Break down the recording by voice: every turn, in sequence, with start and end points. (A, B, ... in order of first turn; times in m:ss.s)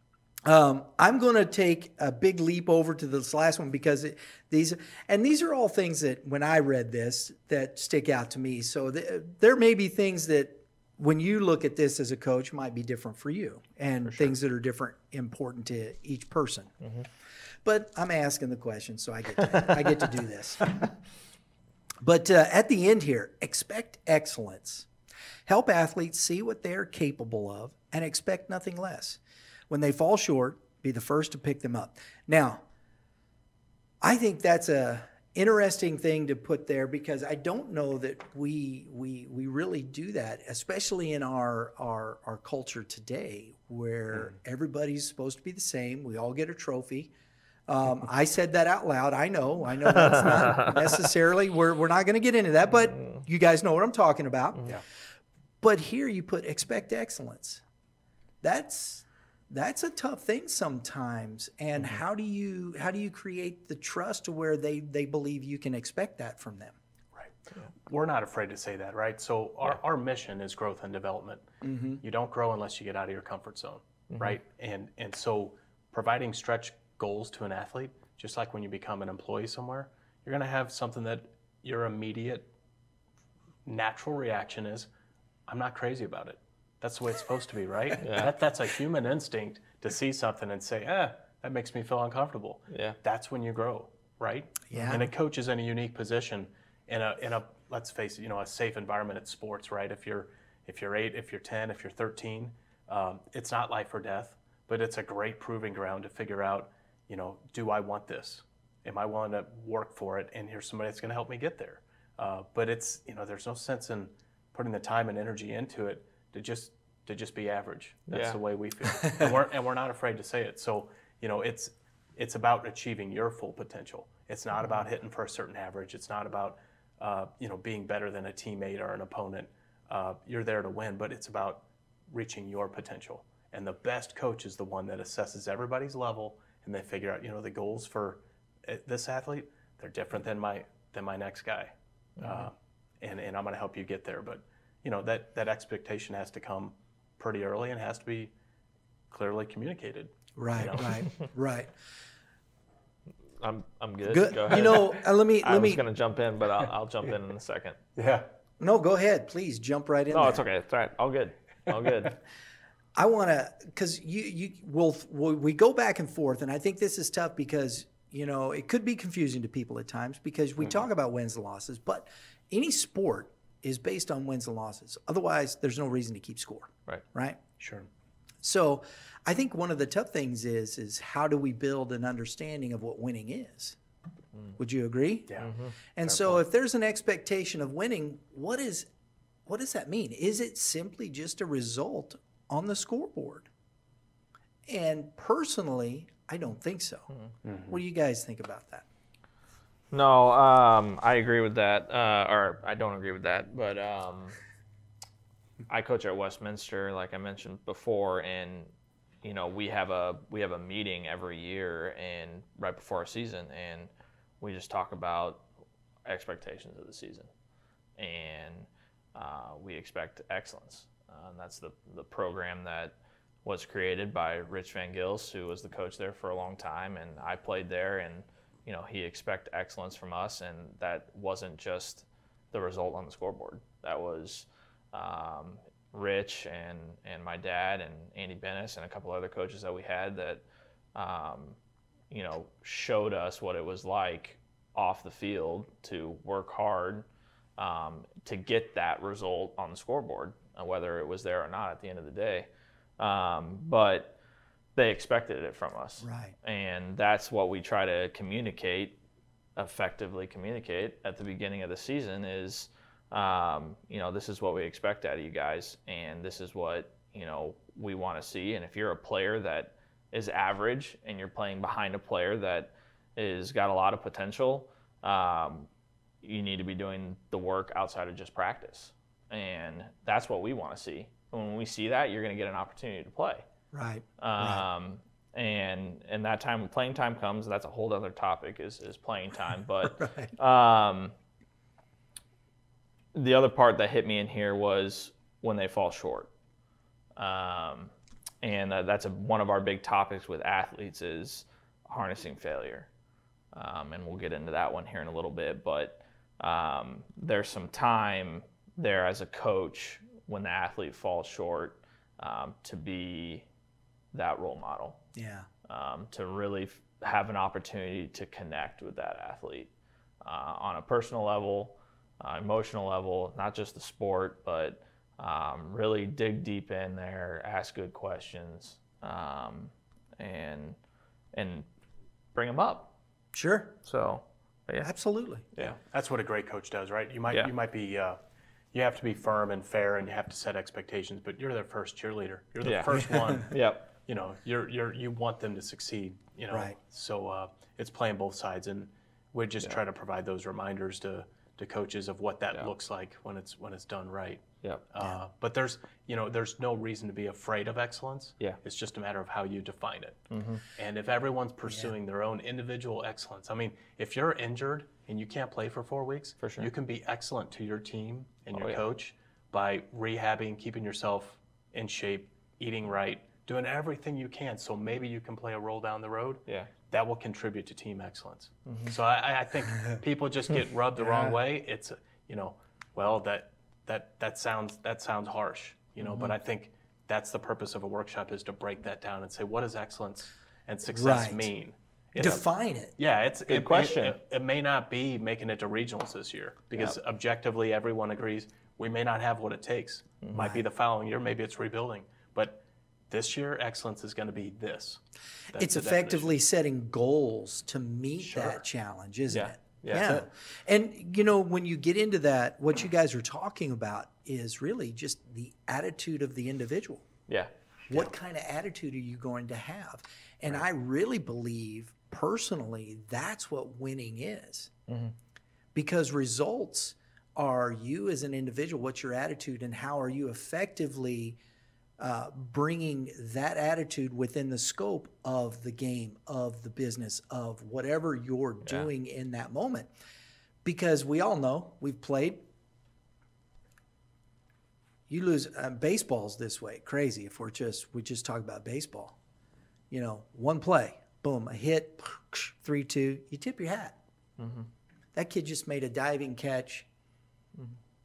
0:00.4-0:16.7 A
0:14.0-0:14.3 B
0:16.8-0:17.1 B
0:17.6-0:20.8 A
0:22.0-0:24.9 A
0:25.4-0:32.6 A
0:34.0-0:47.1 A
0:47.7-0:54.7 A
0:50.1-0:50.8 B
0:52.9-0:53.2 B
0:55.6-0:57.6 A
0:58.4-1:06.8 A
1:07.1-1:22.5 C
1:11.6-1:12.0 A
1:14.1-1:14.4 B
1:23.6-1:24.9 C
1:25.5-2:28.3 C
1:28.0-1:28.3 B
1:32.7-1:33.0 B
1:34.7-1:35.1 A
1:58.1-1:58.4 B
1:59.0-1:59.3 A
2:22.2-2:22.5 B
2:29.1-2:31.0 C
2:30.4-2:31.7 A
2:33.4-2:37.8 B
2:34.0-2:35.8 A
2:38.0-2:38.3 C
2:38.6-2:40.4 A
2:40.1-2:42.2 B
2:43.0-2:57.4 A
2:57.6-2:57.9 C
2:58.4-3:03.8 A
3:04.6-3:05.4 A
3:05.4-3:05.7 B
3:06.0-3:08.9 A
3:06.0-3:06.4 C
3:09.4-3:13.5 A
3:14.6-3:17.1 A
3:17.4-3:17.8 C
3:17.7-3:18.8 A
3:19.9-3:24.4 B
3:25.7-3:28.7 B
3:29.2-3:35.4 B
3:36.0-3:37.3 B
3:38.0-4:00.4 B
4:00.9-4:01.6 B
4:02.1-4:07.0 B
4:07.6-4:14.2 B
4:14.8-4:19.0 B
4:16.0-4:16.4 A
4:19.6-4:35.7 B
4:36.2-4:43.4 B
4:43.7-4:44.6 A
4:44.2-4:51.1 B
4:49.9-4:50.3 A
4:53.1-4:56.3 B
4:57.2-5:02.9 B
5:03.5-5:13.5 B
5:14.1-5:15.0 B
5:15.1-5:15.5 A
5:15.7-5:19.7 B
5:20.2-5:30.8 B
5:31.3-5:31.7 B
5:32.3-5:32.9 B
5:33.3-5:33.8 A
5:33.8-5:34.9 B
5:34.8-5:35.4 A
5:35.6-5:38.2 C
5:38.7-6:00.2 C
5:42.6-5:43.9 B
5:46.5-5:46.8 A
6:00.3-6:00.6 B
6:00.8-6:46.4 C
6:01.6-6:01.9 A
6:06.4-6:06.7 B
6:08.5-6:08.8 B
6:18.6-6:18.9 B
6:21.0-6:21.4 A
6:26.0-6:26.3 B
6:30.9-6:31.5 A
6:32.2-6:32.9 A
6:33.5-6:34.2 B
6:40.2-6:40.5 B
6:40.3-6:40.6 A
6:45.5-6:57.0 A
6:48.2-6:48.6 C
6:49.3-6:50.2 B
6:57.9-7:04.7 A
7:04.9-7:05.1 B
7:05.7-7:11.4 A
7:12.0-7:19.9 A
7:20.6-7:22.4 A
7:25.1-7:29.2 A
7:29.9-7:34.0 A
7:34.4-7:34.7 B
7:35.1-7:36.9 A